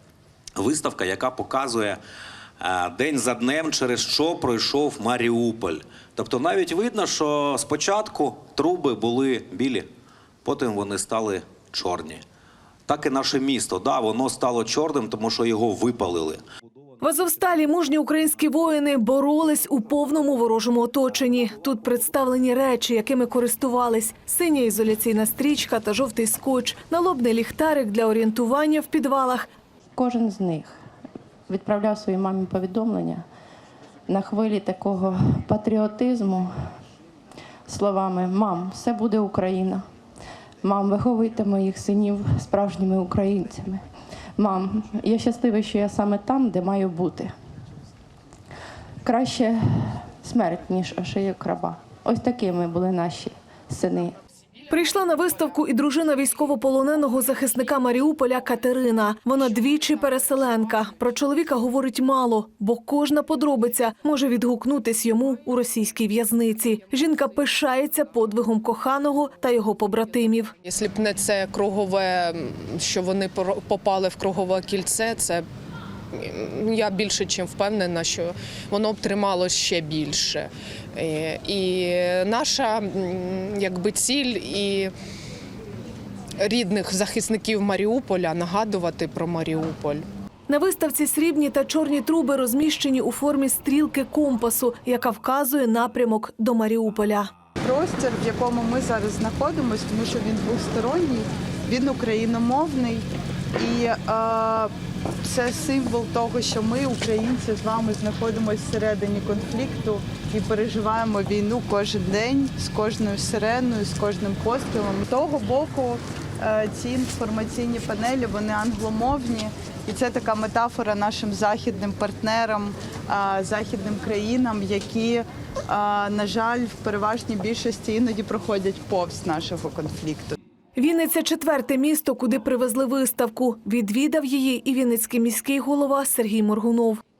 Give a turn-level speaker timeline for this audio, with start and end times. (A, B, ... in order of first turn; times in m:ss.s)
0:00.6-0:02.0 A
0:02.6-0:09.9 A
0:10.4-0:12.2 A
0:12.9-0:16.4 A
0:17.0-0:29.4 B
0:29.9-0:30.7 C
0:31.5-0:33.2 C
0:34.1-0:36.5 C
0:37.7-0:39.8 C
0:40.6-0:43.8 C
0:44.4-0:47.3 C
0:49.0-0:54.1 C
0:54.7-1:10.5 B
1:10.6-1:15.4 D
1:16.2-1:24.9 D
1:26.4-1:30.0 D
1:30.5-1:37.3 B
1:37.6-1:43.0 E
1:43.6-1:44.7 E
1:45.2-2:10.4 E
2:10.8-2:17.0 B